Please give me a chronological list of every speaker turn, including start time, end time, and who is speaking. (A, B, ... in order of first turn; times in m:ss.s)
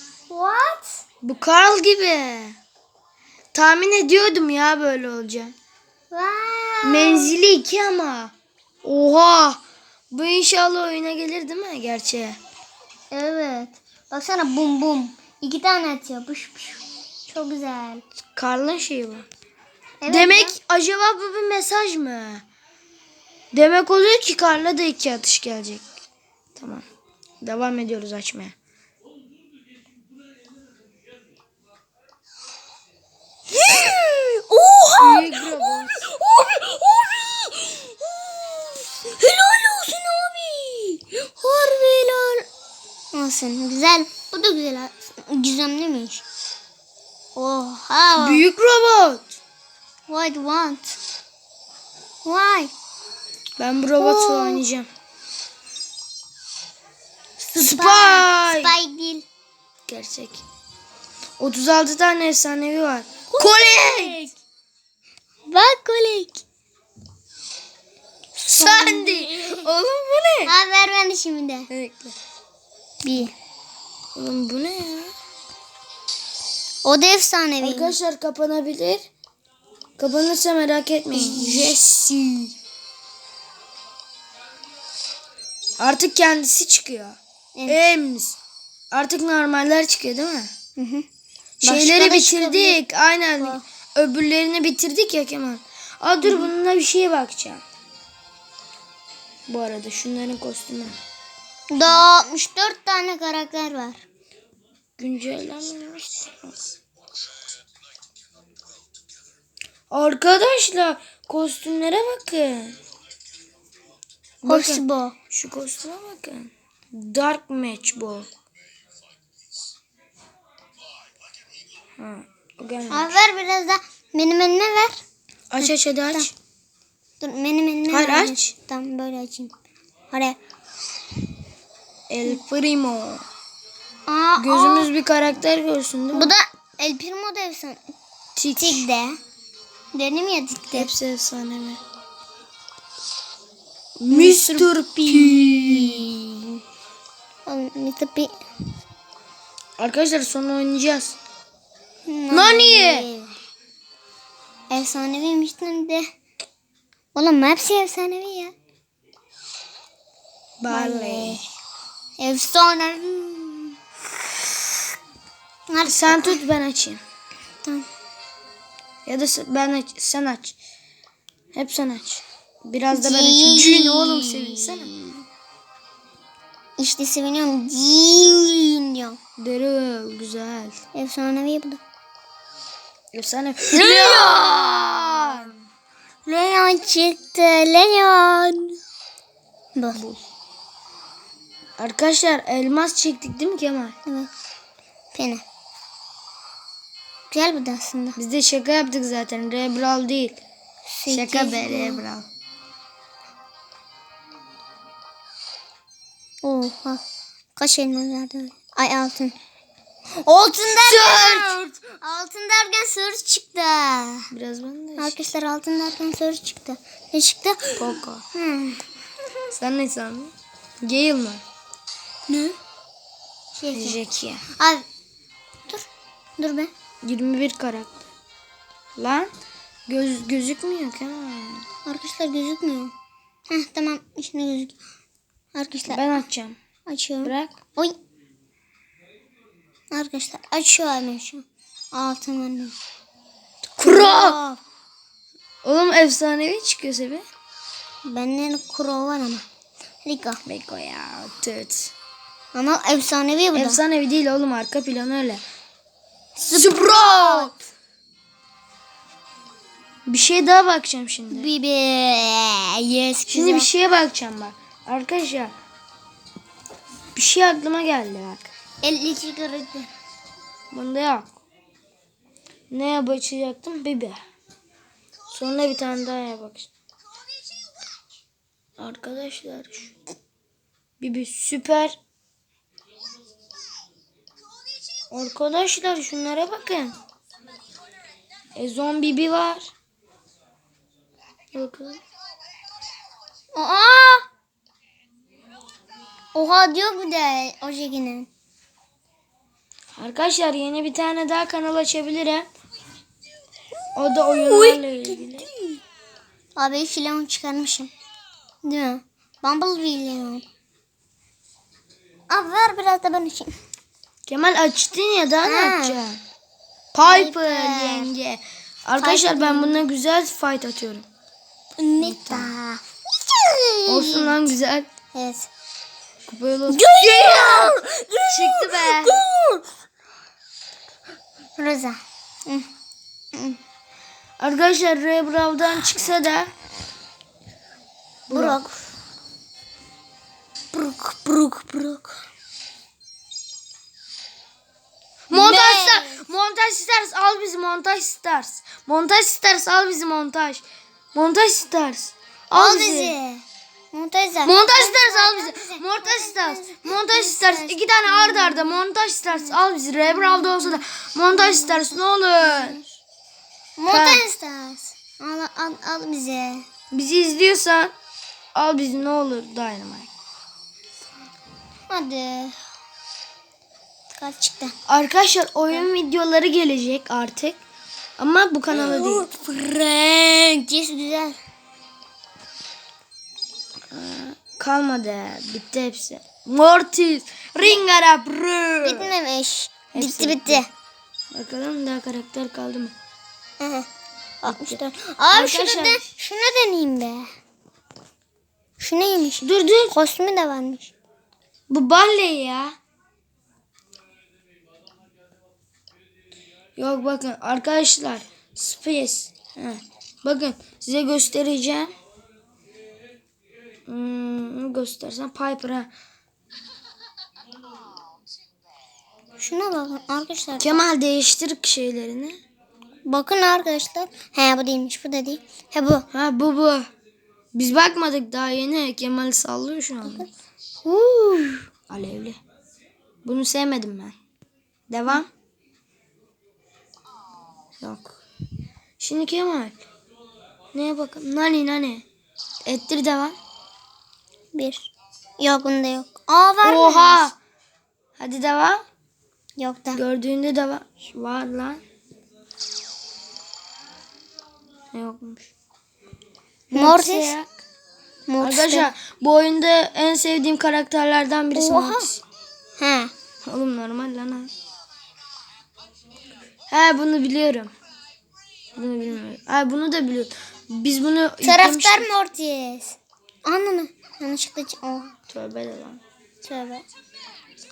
0:00.3-0:01.0 A
0:01.2-0:02.6 B
0:03.5-0:05.5 B
0:06.1-0:07.3 A
0:06.8-0:08.3 B
0:08.8-0:09.6 B
0:10.1-0:12.4 B
0:13.1-0:18.0 A
0:18.4-0:19.2 B
0:20.0-0:20.6 A
0:20.1-0:22.4 B
0:23.5-0:25.8 B
0:26.6-0:26.8 B
0:27.4-0:28.5 B
0:33.5-0:42.4 A
0:35.0-0:36.0 B
0:43.1-0:46.2 A
0:47.3-0:48.4 A
0:48.2-0:49.4 B
0:50.1-0:51.0 A
0:52.2-0:52.7 A
0:53.6-0:54.9 B
0:54.0-0:54.6 A
0:57.4-0:59.2 A
0:57.5-0:58.7 B
0:59.9-1:00.4 B
1:01.4-1:04.3 B
1:03.3-1:04.3 A
1:05.5-1:06.4 A
1:08.4-1:09.6 A
1:08.4-1:10.5 B
1:10.4-1:11.7 A
1:11.7-1:12.1 B
1:13.0-1:13.3 A
1:14.1-1:15.1 B
1:16.8-1:18.0 A
1:17.6-1:19.1 B
1:20.0-1:21.8 B
1:21.1-1:22.5 A
1:25.8-1:28.4 B
1:27.5-1:27.8 A
1:28.9-1:30.5 B
1:30.8-1:31.0 A
1:31.6-1:37.6 B
1:31.6-1:32.8 A
1:36.2-1:36.5 A
1:39.5-1:40.9 B
1:41.7-1:44.0 A
1:45.0-1:46.8 B
1:49.9-1:52.8 B
1:54.4-1:58.3 B
1:54.4-1:55.2 A
2:02.0-2:03.2 B
2:02.9-2:05.0 A
2:05.5-2:06.3 B
2:05.6-2:06.2 A
2:07.2-2:09.5 A
2:07.9-2:08.5 B
2:10.1-2:10.4 A
2:12.1-2:13.2 B
2:14.1-2:14.9 A
2:14.4-2:16.3 B
2:16.1-2:17.8 A
2:18.4-2:18.9 B
2:18.6-2:19.2 A
2:19.9-2:20.9 A
2:20.7-2:21.8 B
2:24.0-2:26.3 B
2:24.1-2:26.1 A
2:27.4-2:28.4 A
2:29.8-2:31.2 B
2:32.0-2:33.4 A
2:32.3-2:33.1 B
2:34.7-2:36.1 A
2:37.1-2:38.5 A
2:40.6-2:41.4 B
2:40.7-2:41.4 A
2:42.2-2:43.8 A
2:45.7-2:46.4 A
2:45.8-2:47.0 B
2:49.0-2:50.6 B
2:51.5-2:55.2 B
2:52.9-2:55.1 A
2:56.8-2:59.2 A
2:59.4-3:00.8 B
3:00.9-3:01.8 A
3:03.1-3:05.5 B
3:03.7-3:04.5 A
3:06.2-3:08.8 A
3:09.7-3:10.0 A
3:09.9-3:10.2 B
3:11.8-3:14.0 B
3:15.1-3:15.4 A
3:17.3-3:18.2 A
3:18.2-3:20.4 B
3:20.9-3:22.0 A
3:21.1-3:22.3 B
3:26.4-3:27.0 A
3:27.6-3:29.4 A
3:30.2-3:34.3 A
3:30.7-3:31.8 B
3:34.3-3:35.2 B
3:35.0-3:38.8 A
3:37.8-3:38.2 B
3:39.5-3:41.4 B
3:42.3-3:42.6 A
3:43.6-3:44.0 A
3:43.7-3:44.4 B
3:44.6-3:44.8 A
3:46.4-3:46.7 A
3:47.0-3:47.9 B
3:49.0-3:49.3 B
3:49.9-3:51.6 B
3:51.8-3:52.9 A
3:53.5-3:54.7 A
3:55.5-3:56.0 A
3:55.9-3:56.6 B
3:56.9-3:57.9 A
3:57.2-3:57.5 B
3:59.9-4:02.7 A
4:03.8-4:04.4 B
4:03.8-4:04.6 A
4:05.6-4:07.2 B
4:08.0-4:09.4 A
4:10.0-4:10.4 A
4:10.4-4:11.9 B
4:12.5-4:13.8 A
4:13.5-4:15.4 B
4:16.4-4:17.5 A
4:16.5-4:17.6 B
4:20.1-4:21.5 B
4:21.3-4:23.7 A
4:23.3-4:25.5 B
4:27.1-4:28.5 B
4:28.8-4:29.9 A
4:30.7-4:31.3 B
4:32.7-4:34.2 B
4:35.3-4:36.7 B
4:38.8-4:39.9 B
4:41.0-4:42.0 B
4:45.1-4:46.9 B
4:48.5-4:49.7 B
4:51.5-4:52.0 B
4:53.5-4:54.2 A
4:56.3-4:58.3 A
5:00.0-5:02.5 B
5:04.0-5:05.5 B
5:04.3-5:05.8 A
5:06.6-5:07.9 A
5:08.6-5:10.4 A
5:12.3-5:13.6 A
5:14.3-5:16.2 B
5:15.4-5:16.0 A
5:16.9-5:21.1 B
5:17.0-5:18.1 A
5:19.0-5:19.8 A
5:21.8-5:24.4 A
5:22.0-5:22.5 B
5:23.9-5:24.9 B
5:25.1-5:25.5 A
5:26.3-5:29.2 B
5:26.7-5:29.6 A
5:31.6-5:32.7 A
5:33.3-5:33.6 A
5:34.4-5:36.5 B
5:38.3-5:38.6 B
5:38.3-5:38.8 A
5:40.7-5:42.2 A
5:45.3-5:46.2 A
5:45.3-5:50.6 B
5:51.1-5:53.1 B
5:52.5-5:59.6 A
5:54.4-6:02.8 B
6:00.1-6:00.8 A
6:01.3-6:02.9 A
6:03.8-6:06.7 A
6:03.9-6:04.2 B
6:06.9-6:07.9 B
6:08.5-6:10.1 B
6:11.9-6:12.6 A
6:14.2-6:14.7 A
6:14.9-6:17.6 B
6:18.2-6:19.3 B
6:18.7-6:21.4 A
6:23.9-6:29.1 B
6:28.8-6:30.7 A
6:29.9-6:30.6 B
6:31.3-6:32.9 B
6:33.6-6:33.9 A
6:34.4-6:37.3 A
6:34.4-6:36.0 B
6:38.8-6:40.9 A
6:39.4-6:40.0 B
6:41.7-6:42.8 B
6:46.8-6:51.9 B
6:53.9-6:55.9 B
6:59.4-7:00.9 A
7:00.6-7:02.4 B
7:03.0-7:06.1 A
7:06.1-7:06.9 B
7:07.5-7:10.2 B
7:10.8-7:11.6 A
7:11.9-7:12.4 B
7:13.2-7:14.1 B
7:14.9-7:15.3 B
7:17.8-7:18.2 B
7:19.0-7:19.8 B
7:20.7-7:22.0 B
7:22.6-7:23.4 B
7:24.5-7:27.3 A
7:26.6-7:27.4 B
7:28.2-7:28.8 B
7:29.6-7:30.0 A
7:29.9-7:31.8 B
7:34.9-7:35.5 B
7:36.7-7:37.5 B
7:36.7-7:37.3 A
7:38.3-7:38.9 A
7:38.4-7:42.2 B
7:41.5-7:42.1 A
7:42.8-7:43.1 A
7:43.4-7:44.5 B
7:46.7-7:47.7 B
7:48.8-7:52.1 B
7:51.4-7:55.1 A
7:55.3-7:56.0 B
7:56.4-7:56.8 A